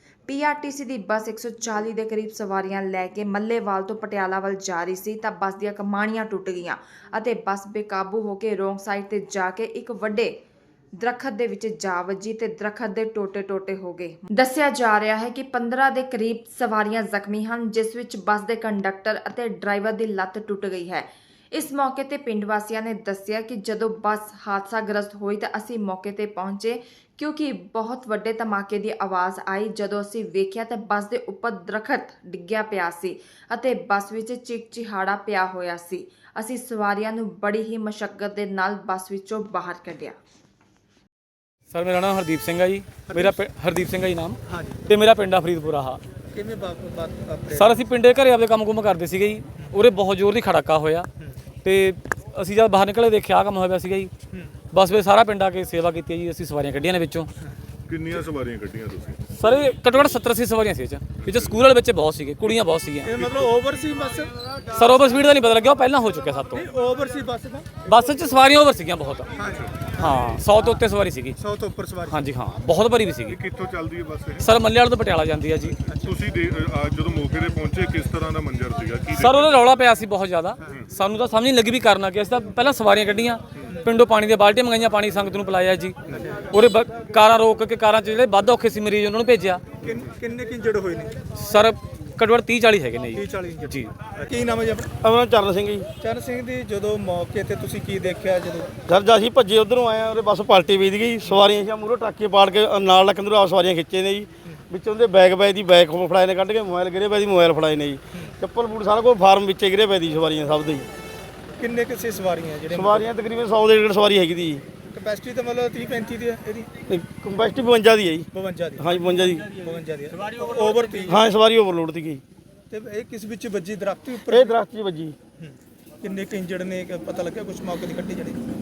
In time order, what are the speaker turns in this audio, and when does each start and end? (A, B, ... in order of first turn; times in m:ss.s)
0:00.3-0:10.3 A
0:11.0-0:40.2 A
0:41.7-0:46.0 B
0:43.1-0:43.4 C
0:44.5-0:44.8 C
0:46.3-0:47.9 C
0:47.5-0:51.1 B
0:51.6-0:54.1 B
0:54.7-0:57.3 B
0:57.9-0:59.2 D
0:59.4-1:03.2 B
1:01.2-1:01.6 D
1:03.0-1:04.3 C
1:04.7-1:06.7 B
1:06.5-1:07.9 C
1:07.8-1:09.3 B
1:09.4-1:10.1 C
1:09.8-1:10.4 D
1:10.0-1:11.4 B
1:11.4-1:12.2 C
1:12.1-1:13.4 B
1:13.3-1:14.5 D
1:14.4-1:15.8 B
1:15.9-1:16.1 C
1:16.0-1:19.5 D
1:19.2-1:26.0 B
1:26.1-1:26.4 C
1:26.5-1:29.7 B
1:29.8-1:31.2 C
1:31.4-1:33.9 B
1:33.1-1:34.9 C
1:35.0-1:35.9 E
1:36.0-1:38.7 C
1:38.9-1:50.9 E
1:51.6-1:53.1 C
1:52.7-1:54.6 E
1:54.9-1:56.7 C
1:56.9-1:59.6 E
1:58.3-2:01.2 C
2:01.1-2:02.2 E
2:02.7-2:04.6 C
2:04.2-2:05.2 E
2:05.4-2:08.4 C